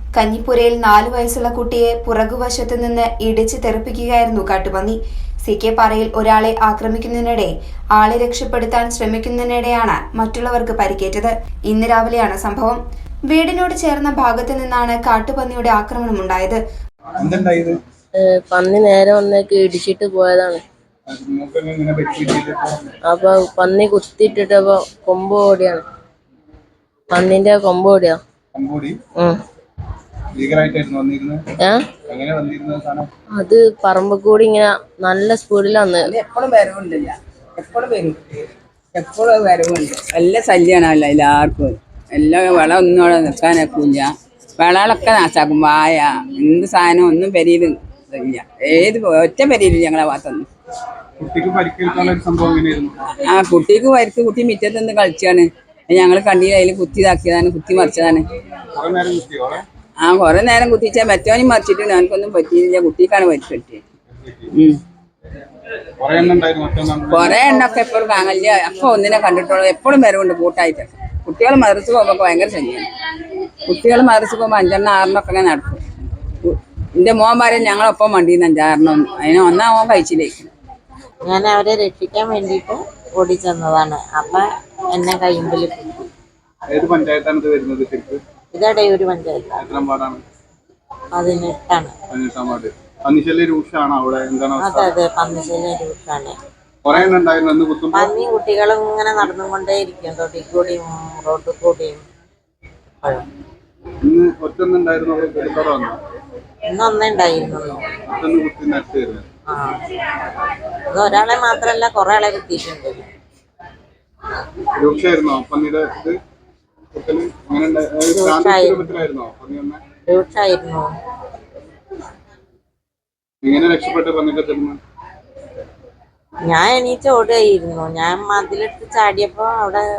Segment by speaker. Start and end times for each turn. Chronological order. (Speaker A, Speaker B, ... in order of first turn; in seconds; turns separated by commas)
Speaker A: 0.1-16.6, Speaker B: 17.2-17.8, Speaker C: 18.2-20.6, Speaker B: 21.1-22.8, Speaker C: 23.0-25.8, Speaker C: 27.1-28.2, Speaker B: 28.5-28.9, Speaker B: 30.3-31.4, Speaker C: 31.6-31.9, Speaker B: 32.1-33.1, Speaker C: 33.3-36.1, Speaker D: 36.0-38.4, Speaker D: 38.9-50.5, Speaker B: 51.2-53.0, Speaker D: 53.2-58.3, Speaker B: 58.8-59.6, Speaker D: 60.0-63.8, Speaker B: 64.1-64.5, Speaker D: 64.5-64.8, Speaker B: 66.0-67.5, Speaker D: 67.1-72.9, Speaker D: 73.7-75.8, Speaker D: 76.4-80.5, Speaker E: 81.3-84.3, Speaker E: 85.0-85.9, Speaker B: 86.7-88.2, Speaker E: 88.6-89.5, Speaker B: 89.6-90.2, Speaker E: 91.2-91.9, Speaker B: 92.1-95.0, Speaker E: 95.1-96.3, Speaker B: 96.8-98.1, Speaker E: 98.2-102.0, Speaker B: 104.0-106.0, Speaker E: 106.8-107.8, Speaker B: 108.1-109.2, Speaker E: 110.9-113.0, Speaker B: 114.8-116.2, Speaker B: 116.9-119.8, Speaker E: 120.1-120.8, Speaker B: 123.4-124.8, Speaker E: 126.5-129.8